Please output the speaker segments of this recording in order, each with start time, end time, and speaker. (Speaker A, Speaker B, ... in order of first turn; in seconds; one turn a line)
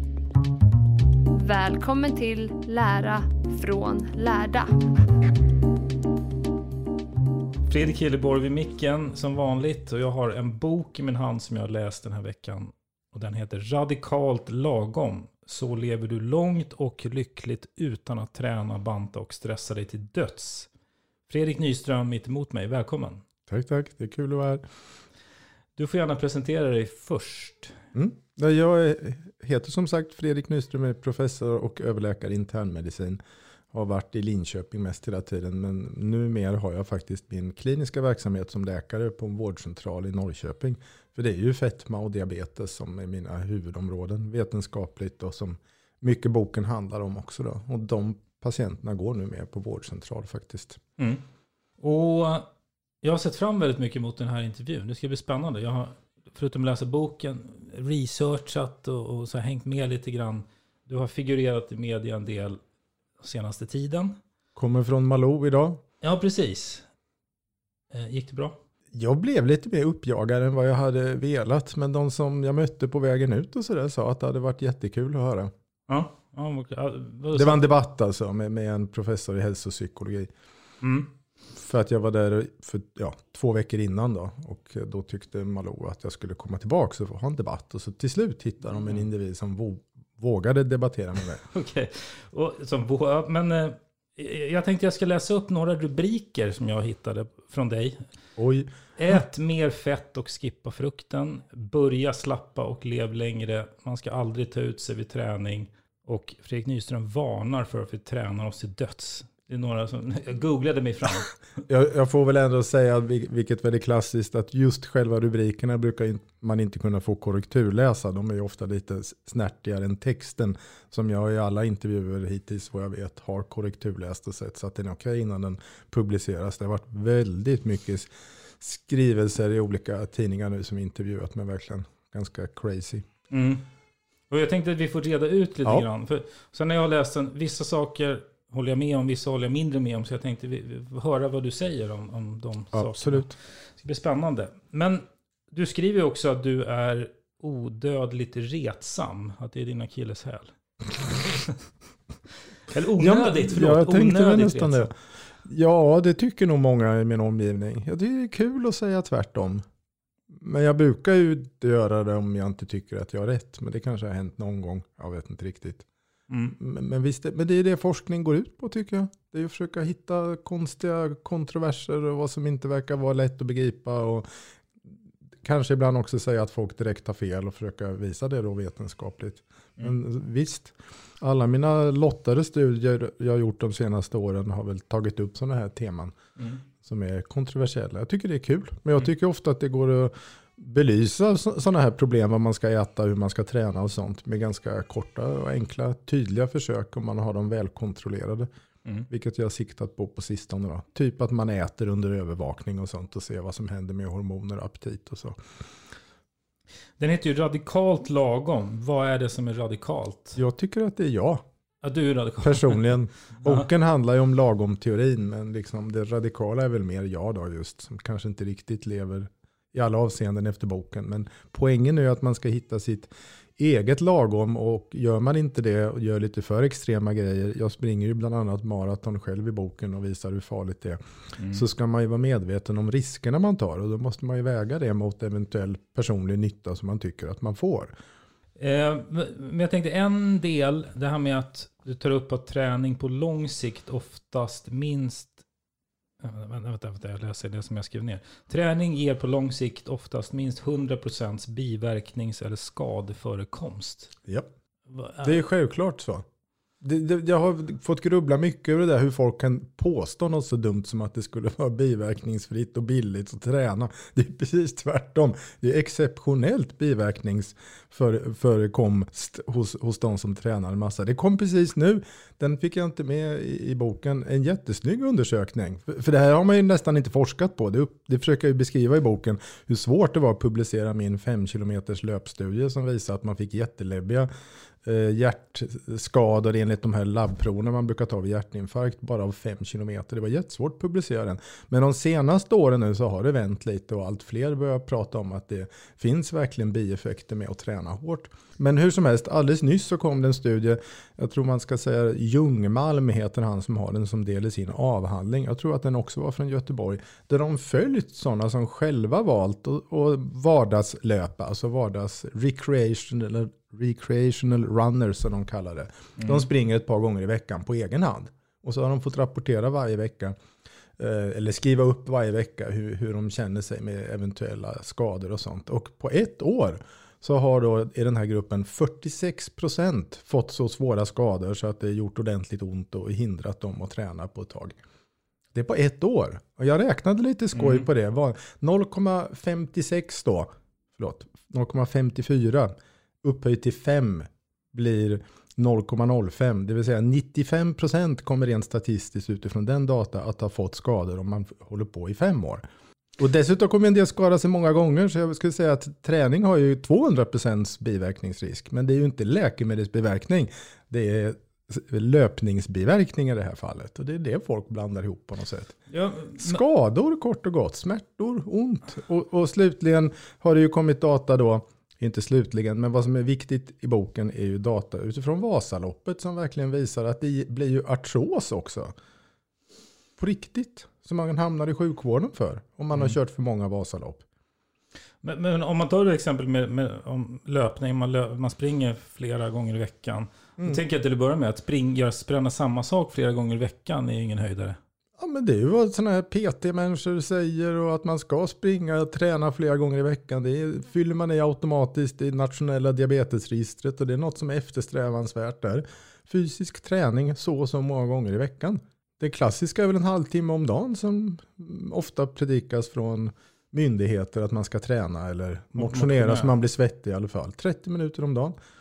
Speaker A: 1.3-4.7
Speaker B: 7.7-20.7
Speaker B: 21.3-23.2
Speaker C: 23.5-24.6
Speaker B: 25.8-27.7
Speaker C: 27.9-33.2
Speaker C: 33.7-50.8
Speaker B: 51.0-51.2
Speaker B: 51.8-52.5
Speaker B: 53.0-62.6
Speaker B: 63.2-64.2
Speaker C: 64.5-65.8
Speaker B: 66.0-66.8
Speaker B: 67.9-68.6
Speaker C: 68.9-75.5
Speaker B: 75.9-77.6
Speaker C: 77.3-80.3
Speaker B: 80.8-81.1
Speaker C: 81.5-91.4
Speaker B: 88.7-89.0
Speaker B: 91.5-98.0
Speaker C: 98.4-98.7
Speaker B: 99.0-111.3
Speaker C: 111.7-128.1
Speaker C: 128.6-133.1
Speaker B: 133.3-133.6
Speaker B: 134.3-150.5
Speaker C: 142.7-143.4
Speaker B: 152.7-154.9
Speaker C: 153.0-154.9
Speaker C: 155.4-159.6
Speaker C: 160.3-165.8
Speaker B: 166.3-166.6
Speaker C: 166.5-174.3
Speaker C: 175.4-186.2
Speaker B: 186.4-186.6
Speaker C: 186.8-198.5
Speaker C: 199.1-205.4
Speaker B: 207.0-210.4
Speaker C: 210.3-211.4
Speaker B: 211.8-212.8
Speaker C: 212.4-231.0
Speaker B: 213.4-213.7
Speaker B: 231.4-231.7
Speaker C: 231.5-237.9
Speaker B: 238.6-245.4
Speaker B: 246.2-254.1
Speaker B: 254.9-255.4
Speaker C: 255.2-256.2
Speaker C: 256.8-284.3
Speaker C: 284.8-320.4
Speaker B: 316.2-316.4
Speaker C: 321.0-334.8
Speaker C: 335.5-352.6
Speaker B: 337.5-337.9
Speaker C: 353.2-365.8
Speaker B: 365.9-366.6
Speaker C: 366.4-378.9
Speaker C: 380.2-384.2
Speaker B: 385.2-394.8
Speaker C: 395.2-418.6
Speaker B: 415.8-416.5